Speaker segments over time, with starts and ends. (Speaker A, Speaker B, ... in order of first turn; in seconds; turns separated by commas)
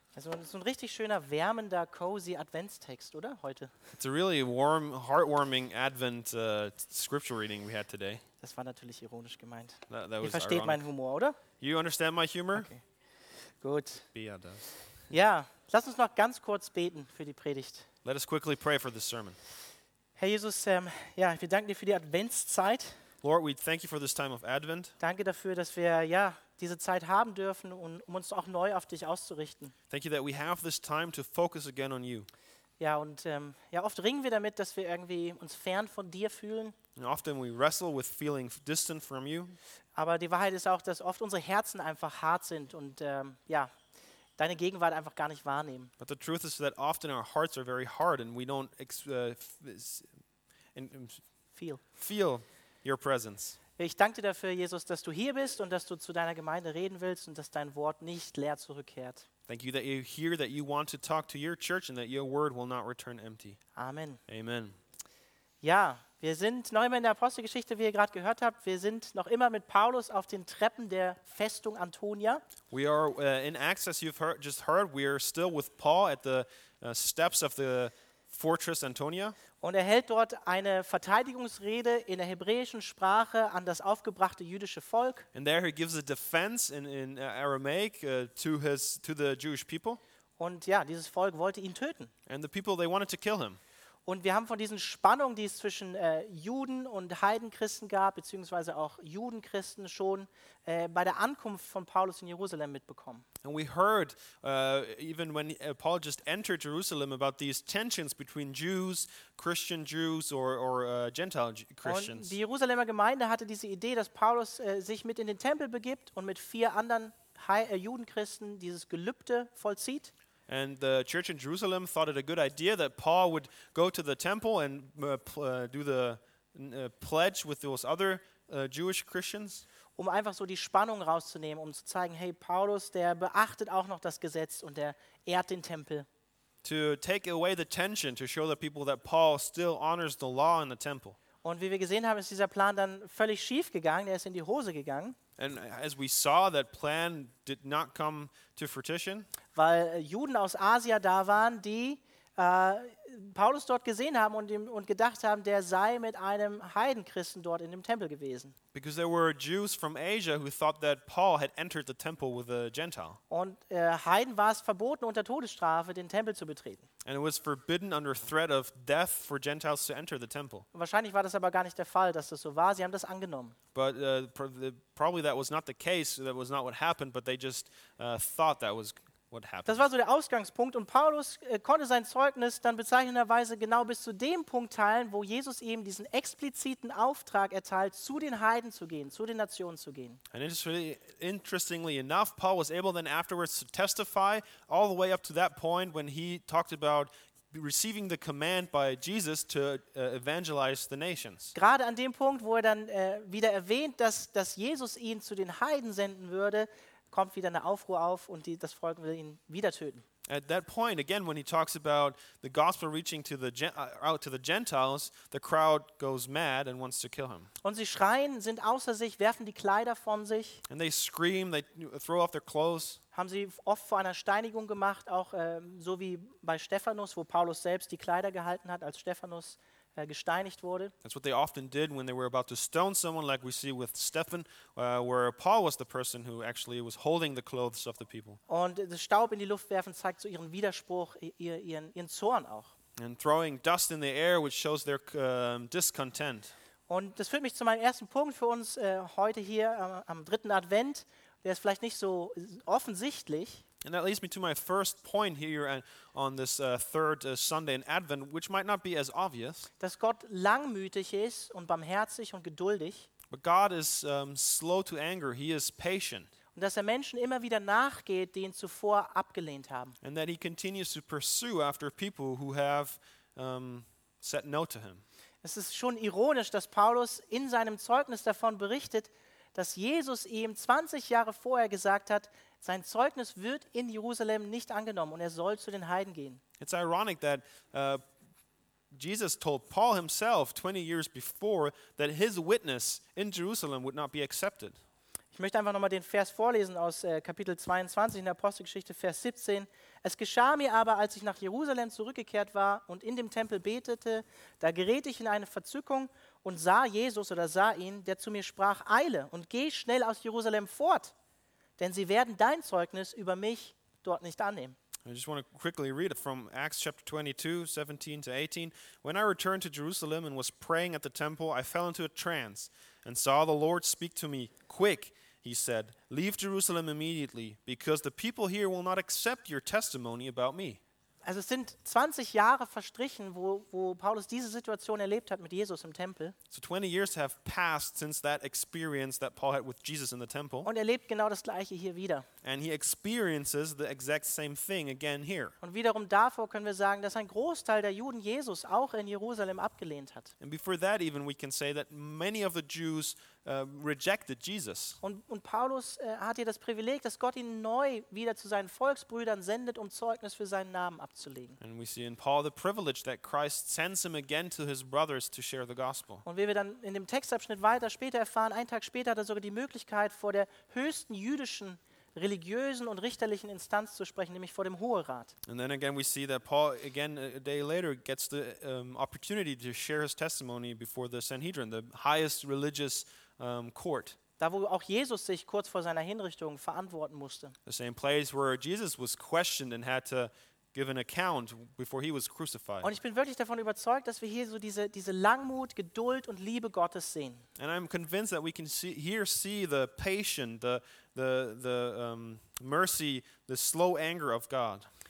Speaker A: 0.1-3.7, Speaker B: 3.9-8.2, Speaker A: 8.4-11.4, Speaker B: 9.9-10.8, Speaker B: 11.6-12.7, Speaker A: 12.5-12.8, Speaker A: 13.6-14.1, Speaker B: 14.1-14.7, Speaker A: 15.1-17.9, Speaker B: 18.0-19.4, Speaker A: 20.2-23.0, Speaker B: 23.2-24.9, Speaker A: 25.0-29.7, Speaker B: 29.9-32.3, Speaker A: 32.8-36.8, Speaker B: 37.0-39.6, Speaker A: 40.0-43.7, Speaker A: 44.4-45.9, Speaker B: 46.0-50.1, Speaker B: 50.7-51.2, Speaker A: 51.5-51.8, Speaker B: 52.0-53.6, Speaker A: 53.8-59.2, Speaker B: 59.5-63.6, Speaker A: 63.8-64.2, Speaker B: 64.3-64.8, Speaker A: 65.6-72.4, Speaker B: 72.7-79.3, Speaker A: 79.6-85.3, Speaker B: 85.3-90.0, Speaker A: 90.4-92.1, Speaker B: 92.3-93.6, Speaker A: 94.0-103.2, Speaker B: 103.4-112.3, Speaker A: 111.8-120.1, Speaker B: 120.5-129.6, Speaker A: 130.0-136.1, Speaker B: 136.6-141.2, Speaker A: 141.4-145.2, Speaker B: 145.4-149.3, Speaker A: 149.5-158.5, Speaker B: 158.7-163.2, Speaker A: 163.3-166.8, Speaker B: 167.0-170.7, Speaker A: 170.7-173.5, Speaker B: 173.7-179.8, Speaker A: 179.7-190.2, Speaker B: 190.3-201.5, Speaker A: 201.5-210.0, Speaker B: 210.3-217.5, Speaker A: 217.6-220.6, Speaker B: 220.7-223.0, Speaker A: 223.1-230.9, Speaker B: 231.0-238.4, Speaker A: 238.5-242.7, Speaker B: 242.9-246.5, Speaker A: 246.9-253.6, Speaker B: 253.8-259.7, Speaker A: 259.8-263.1, Speaker B: 263.3-266.3, Speaker A: 266.5-270.0, Speaker B: 270.0-275.0, Speaker A: 275.4-286.4, Speaker B: 286.6-288.0, Speaker B: 288.9-294.8, Speaker A: 295.3-311.1, Speaker A: 311.8-314.8, Speaker B: 315.0-330.8, Speaker A: 331.2-336.4, Speaker B: 336.5-340.7, Speaker A: 340.6-342.3, Speaker B: 342.4-345.5, Speaker A: 345.6-350.3, Speaker B: 350.4-355.0, Speaker A: 355.0-361.6, Speaker B: 361.6-366.2, Speaker A: 366.2-375.3, Speaker B: 375.4-384.2, Speaker A: 384.4-387.5, Speaker B: 387.6-392.9, Speaker A: 392.8-397.4, Speaker B: 397.6-404.9